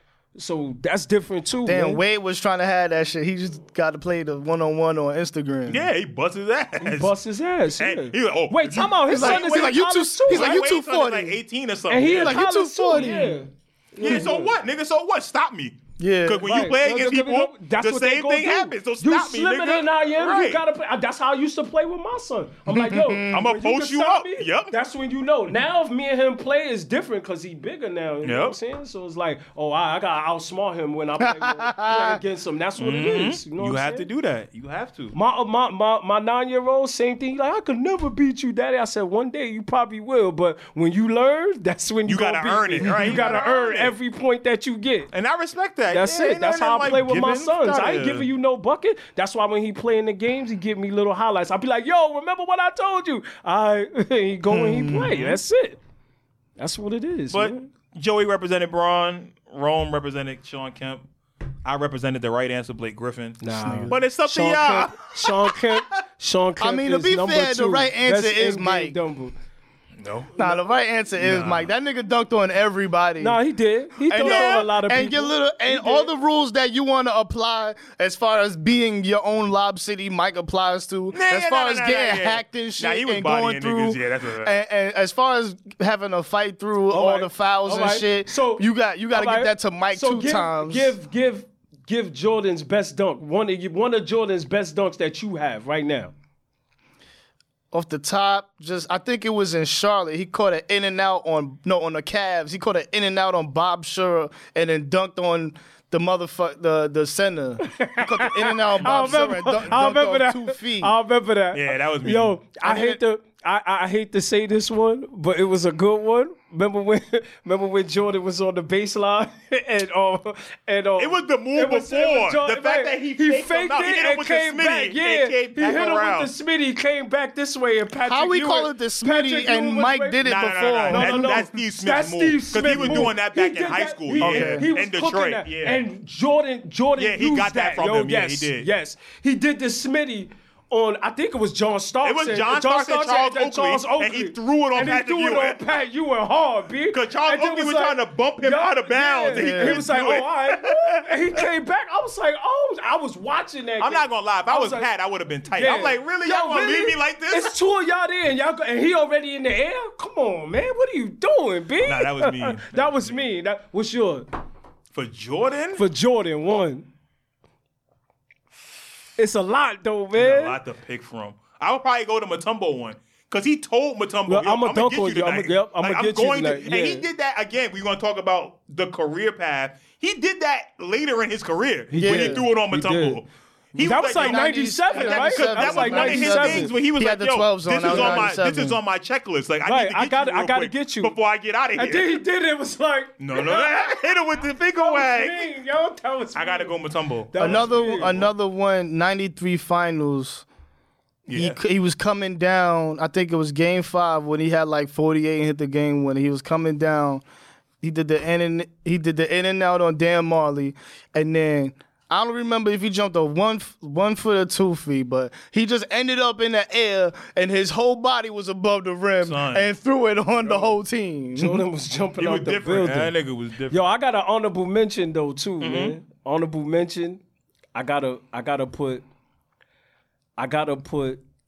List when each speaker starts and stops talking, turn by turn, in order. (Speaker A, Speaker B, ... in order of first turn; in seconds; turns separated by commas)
Speaker A: 0.3-2.0, Speaker B: 1.7-5.9, Speaker C: 5.7-7.1, Speaker A: 6.8-10.7, Speaker C: 7.8-12.4, Speaker B: 9.1-11.4, Speaker A: 11.9-14.5, Speaker B: 12.1-13.3, Speaker C: 12.9-13.4, Speaker C: 14.0-20.6, Speaker B: 14.0-14.3, Speaker B: 16.0-16.5, Speaker A: 16.4-34.1, Speaker B: 22.7-23.4, Speaker C: 23.3-24.7, Speaker C: 28.2-28.6, Speaker B: 31.2-32.2, Speaker C: 32.8-35.1, Speaker A: 35.1-45.1, Speaker C: 42.1-43.9, Speaker C: 45.1-48.3, Speaker A: 45.9-55.8, Speaker B: 54.5-55.2, Speaker C: 55.0-55.4, Speaker A: 56.6-57.7, Speaker C: 57.3-61.0, Speaker C: 61.6-66.0, Speaker A: 63.4-69.3, Speaker B: 63.5-64.0, Speaker B: 66.6-69.0, Speaker C: 70.0-70.4, Speaker B: 70.4-73.4, Speaker C: 71.2-71.7, Speaker A: 73.2-76.1, Speaker B: 74.1-91.0, Speaker C: 74.2-74.7, Speaker C: 81.1-84.6, Speaker A: 86.9-96.1, Speaker B: 97.7-110.9, Speaker A: 107.6-130.2, Speaker C: 111.5-112.4, Speaker B: 112.6-113.0, Speaker C: 121.0-126.3, Speaker B: 128.1-131.4, Speaker C: 130.2-135.8, Speaker A: 130.9-154.9, Speaker B: 132.7-133.1, Speaker B: 134.2-134.7, Speaker C: 137.0-138.7, Speaker C: 142.0-145.6, Speaker C: 146.9-151.4, Speaker B: 149.3-149.9, Speaker C: 153.8-157.6, Speaker A: 155.5-164.3, Speaker C: 161.8-163.3, Speaker C: 164.9-165.8, Speaker A: 165.8-166.9, Speaker A: 169.2-170.6, Speaker C: 170.2-192.1, Speaker A: 174.3-177.1, Speaker A: 181.9-183.2, Speaker B: 182.0-182.4, Speaker B: 183.7-188.8, Speaker A: 183.8-186.7, Speaker A: 187.8-188.3, Speaker A: 189.7-191.2, Speaker A: 191.8-194.1, Speaker C: 193.2-195.5, Speaker A: 194.8-196.8, Speaker C: 196.3-198.3, Speaker A: 197.3-198.1, Speaker B: 197.4-200.4, Speaker C: 201.3-201.6, Speaker B: 201.3-207.2, Speaker B: 207.8-221.6, Speaker C: 219.2-219.7, Speaker A: 220.4-220.7, Speaker A: 221.4-223.1, Speaker C: 222.2-223.8, Speaker A: 223.7-227.2, Speaker C: 225.6-226.0, Speaker A: 227.8-229.0, Speaker A: 230.4-231.2